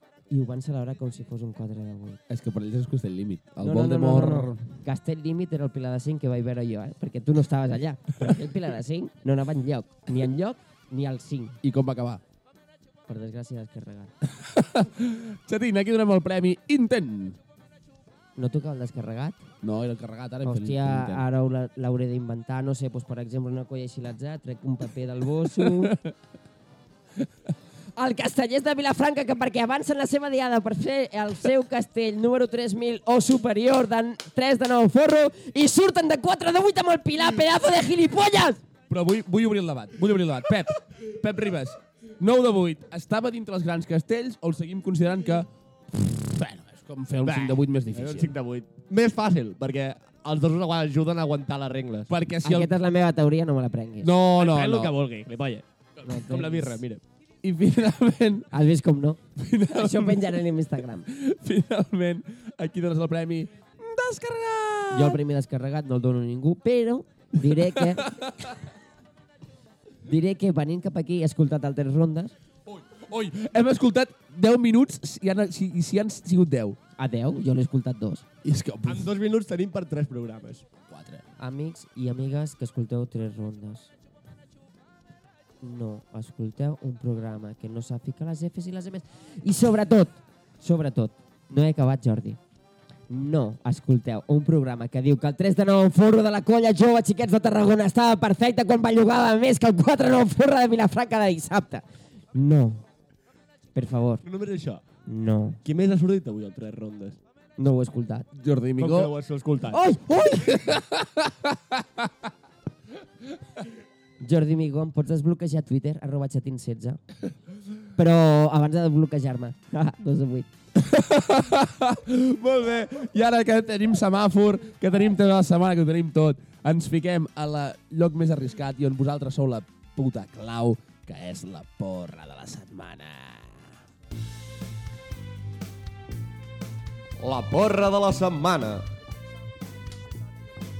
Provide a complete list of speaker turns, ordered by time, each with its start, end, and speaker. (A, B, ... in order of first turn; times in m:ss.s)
0:00.3-0:02.2 A
0:02.3-0:04.6 B
0:03.6-0:11.6 A
0:11.6-0:12.2 B
0:13.1-0:14.1 A
0:14.3-0:17.4 B
0:18.4-0:19.4 A
0:19.6-0:21.3 B
0:20.4-0:26.0 A
0:25.6-0:26.1 B
0:28.0-0:38.6 A
0:38.9-0:48.3 B
0:47.2-0:52.1 C
0:52.1-0:52.7 B
0:52.4-0:54.1 A
0:54.0-0:54.9 B
0:54.4-0:57.0 C
0:56.0-0:56.8 A
0:57.4-0:58.5 B
0:58.5-1:01.1 A
0:59.4-1:00.4 B
1:01.1-1:05.2 B
1:04.9-1:08.1 A
1:07.5-1:08.6 B
1:10.1-1:12.3 A
1:12.7-1:16.8 B
1:17.0-1:18.2 A
1:18.4-1:19.1 B
1:18.9-1:20.6 C
1:20.9-1:21.2 B
1:21.4-1:23.9 A
1:25.6-1:32.4 A
1:33.1-1:42.8 A
1:43.8-1:44.2 A
1:44.2-1:44.8 C
1:45.1-1:45.6 A
1:45.6-1:47.2 C
1:47.6-1:48.3 A
1:48.4-1:49.1 B
1:48.8-1:49.8 C
1:49.7-1:50.8 A
1:50.4-1:52.1 B
1:54.2-1:57.0 A
1:58.0-2:00.5 A
2:00.8-2:13.7 B
2:17.2-2:18.8 C